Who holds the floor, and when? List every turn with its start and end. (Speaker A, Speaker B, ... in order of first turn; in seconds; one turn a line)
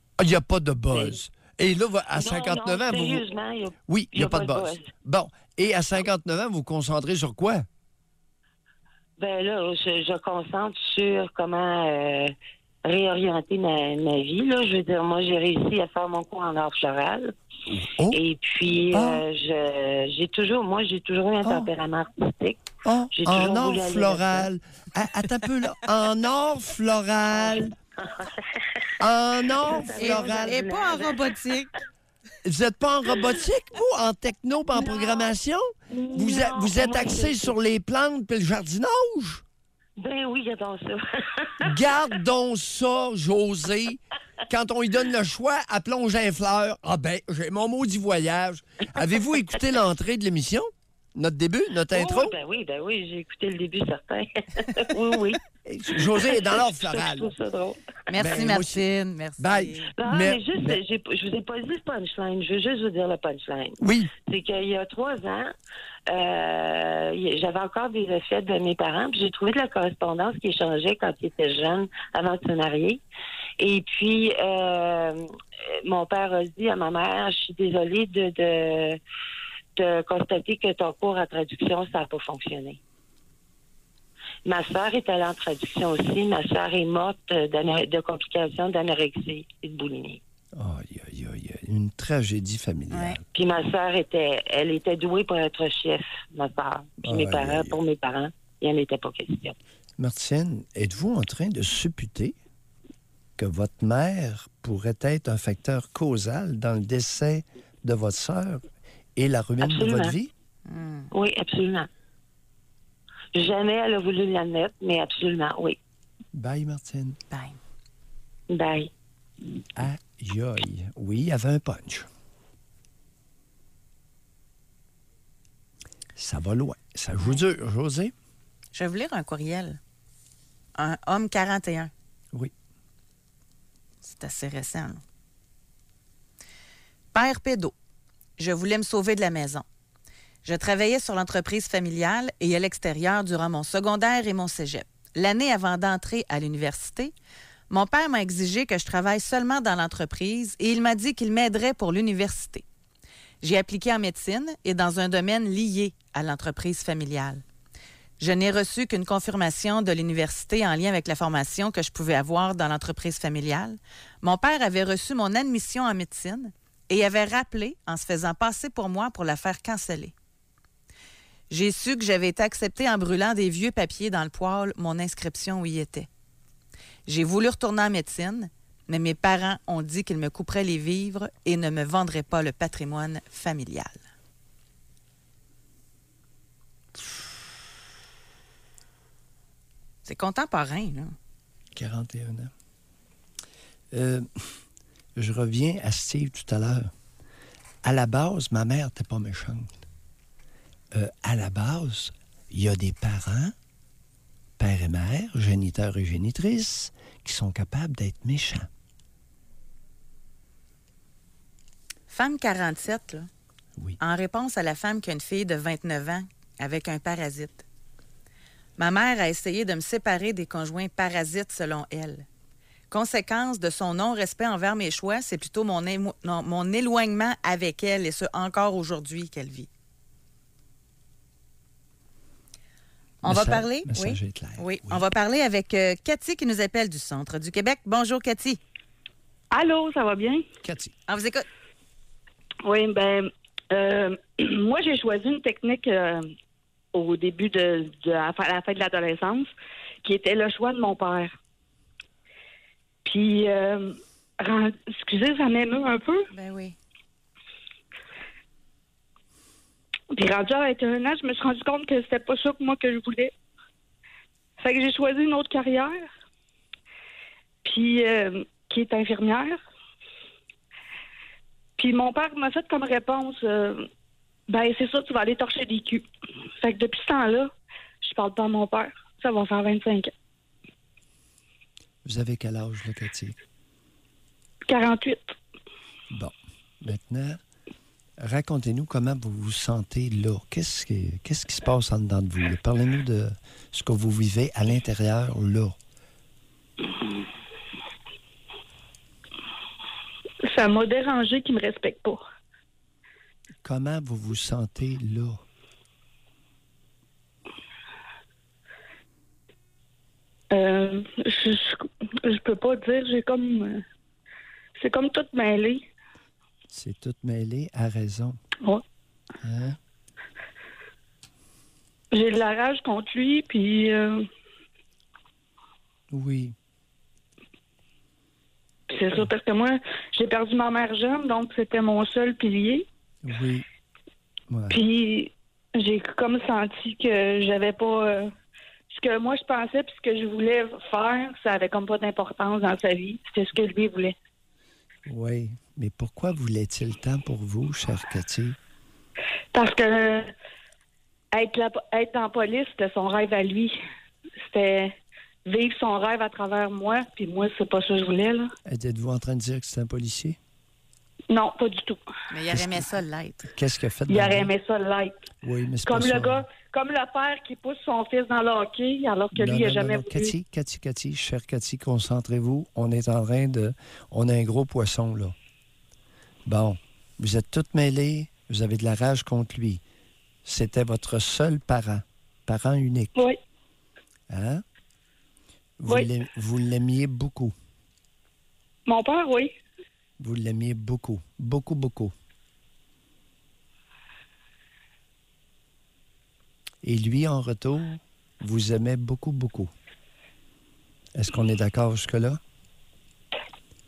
Speaker A: 0.2-3.2
Speaker B: 2.1-4.9
Speaker A: 3.9-7.7
Speaker B: 9.2-12.3
Speaker B: 12.8-17.4
Speaker A: 17.7-18.2
Speaker B: 18.1-24.5
Speaker A: 18.9-19.2
Speaker A: 21.4-21.7
Speaker A: 22.8-27.7
Speaker B: 27.4-31.4
Speaker A: 29.0-30.6
Speaker C: 30.0-31.7
Speaker A: 32.4-39.4
Speaker B: 34.7-35.3
Speaker B: 35.9-37.5
Speaker B: 40.0-41.7
Speaker A: 41.6-52.3
Speaker B: 51.9-55.4
Speaker A: 55.6-57.3
Speaker B: 55.9-58.3
Speaker C: 58.1-59.9
Speaker A: 58.2-58.8
Speaker A: 59.4-60.8
Speaker B: 60.0-65.5
Speaker A: 63.8-64.1
Speaker B: 66.1-73.0
Speaker B: 73.6-75.3
Speaker B: 75.8-79.0
Speaker B: 79.7-82.8
Speaker B: 84.4-90.2
Speaker A: 90.5-93.2
Speaker C: 92.9-93.2
Speaker B: 93.3-99.6
Speaker A: 97.0-97.8
Speaker A: 100.0-102.3
Speaker A: 103.4-110.3
Speaker B: 109.6-110.1
Speaker C: 110.7-111.1
Speaker B: 111.1-111.9
Speaker B: 113.3-115.8
Speaker A: 116.3-117.2
Speaker C: 117.3-117.6
Speaker B: 118.5-118.9
Speaker A: 119.8-122.1
Speaker A: 126.2-128.1
Speaker C: 128.7-129.8
Speaker C: 130.8-131.9
Speaker C: 134.0-135.0
Speaker C: 137.1-137.7
Speaker C: 138.4-139.7
Speaker C: 140.4-147.1
Speaker C: 147.7-152.6
Speaker C: 153.4-157.4
Speaker C: 158.2-170.1
Speaker C: 171.5-176.1
Speaker C: 177.1-184.0
Speaker C: 190.1-191.1
Speaker A: 191.7-192.5
Speaker A: 193.9-194.6
Speaker A: 195.2-196.9
Speaker A: 197.8-199.7
Speaker A: 200.9-203.5
Speaker A: 204.6-208.7
Speaker C: 212.1-213.3
Speaker C: 214.0-217.6
Speaker C: 218.8-222.2
Speaker C: 222.9-229.7
Speaker A: 233.2-235.0
Speaker C: 233.2-238.6
Speaker D: 239.5-240.4
Speaker A: 240.6-240.9
Speaker C: 241.1-241.4
Speaker D: 242.6-246.3
Speaker D: 246.9-249.5
Speaker D: 250.0-251.3
Speaker D: 253.0-256.3
Speaker C: 256.3-256.8
Speaker D: 260.1-263.3
Speaker D: 264.6-266.0
Speaker D: 267.6-269.6
Speaker D: 271.8-273.9
Speaker D: 274.5-276.1
Speaker D: 276.6-277.5
Speaker D: 278.0-280.1
Speaker A: 282.0-283.4
Speaker D: 284.7-285.4
Speaker A: 286.1-287.4
Speaker A: 288.2-295.8
Speaker D: 300.4-302.2
Speaker A: 303.6-305.4
Speaker D: 310.5-313.8
Speaker D: 314.8-315.9
Speaker A: 316.7-318.4
Speaker A: 319.4-319.8
Speaker D: 322.1-324.2
Speaker A: 326.1-326.6
Speaker D: 328.9-332.9
Speaker A: 333.2-333.6
Speaker A: 334.5-334.8
Speaker D: 334.7-338.3
Speaker D: 338.9-344.1
Speaker A: 345.1-348.6
Speaker D: 349.5-350.3
Speaker D: 351.3-353.8
Speaker D: 354.4-354.9
Speaker D: 355.4-358.5
Speaker A: 358.6-360.4
Speaker D: 361.3-362.0
Speaker C: 362.3-363.5
Speaker A: 362.5-362.8
Speaker A: 363.5-364.5
Speaker D: 364.1-365.2
Speaker A: 365.4-366.4
Speaker D: 365.8-370.3
Speaker A: 369.3-375.3
Speaker A: 376.4-379.8
Speaker A: 380.4-383.1
Speaker A: 384.3-384.6
Speaker A: 385.8-387.5
Speaker D: 388.9-389.5
Speaker A: 390.2-392.1
Speaker A: 396.8-399.7
Speaker A: 401.1-402.4